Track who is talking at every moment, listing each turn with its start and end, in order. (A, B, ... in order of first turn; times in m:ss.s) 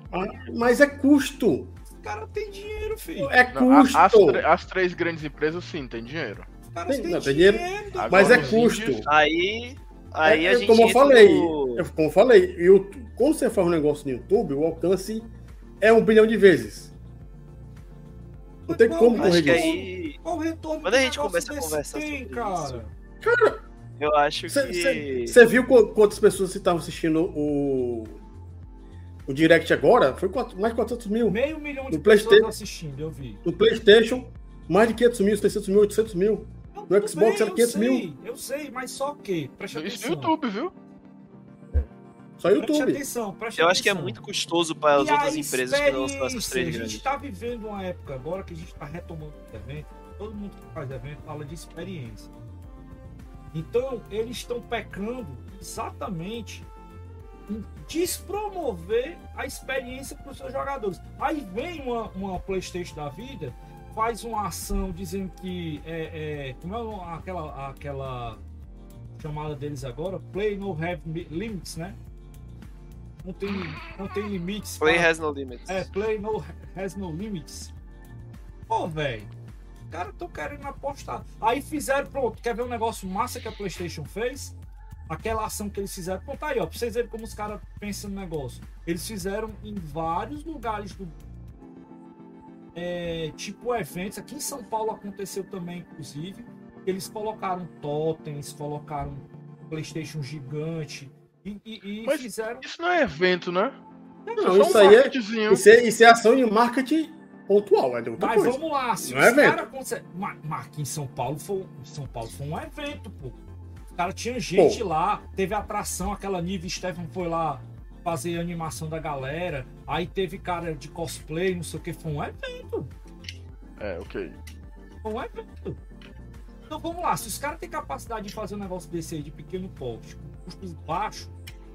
0:00.1-0:01.8 A
0:01.9-0:03.4 B
0:03.2-0:04.4 A
0:03.5-0:06.5 C
0:06.7-0:08.6 B
0:06.9-0:09.1 A
0:08.0-0:09.1 C
0:09.1-0:11.8 D
0:10.2-0:16.9 A
0:18.7-0:22.9 B
0:18.7-0:19.8 A
0:19.2-0:20.2 D
0:20.8-0:22.8 D
0:23.2-0:23.6 A
0:24.0-0:25.4 D
0:24.5-0:28.2 A
0:29.3-0:31.4 A
0:31.3-0:33.4 B
0:31.9-0:32.5 A
0:33.4-0:38.1 A
0:36.7-0:40.3 B
0:39.7-0:40.7 C
0:42.4-0:43.0 A
0:42.6-0:44.2 B
0:43.6-0:47.0 D
0:45.0-0:52.3 B
0:53.5-0:56.7 B
0:57.5-1:08.4 B
1:09.2-1:12.0 B
1:13.2-1:15.1 B
1:14.8-1:15.9 D
1:15.7-1:17.7 B
1:18.7-1:19.3 B
1:19.9-1:24.6 B
1:25.1-1:31.2 B
1:32.8-1:42.6 B
1:42.0-1:43.8 C
1:44.3-1:45.0 B
1:44.4-1:49.7 A
1:44.4-1:45.7 C
1:48.2-1:53.4 B
1:53.9-2:02.9 B
1:54.6-1:54.8 A
2:03.8-2:04.4 C
2:05.0-2:05.8 B
2:06.7-2:11.4 B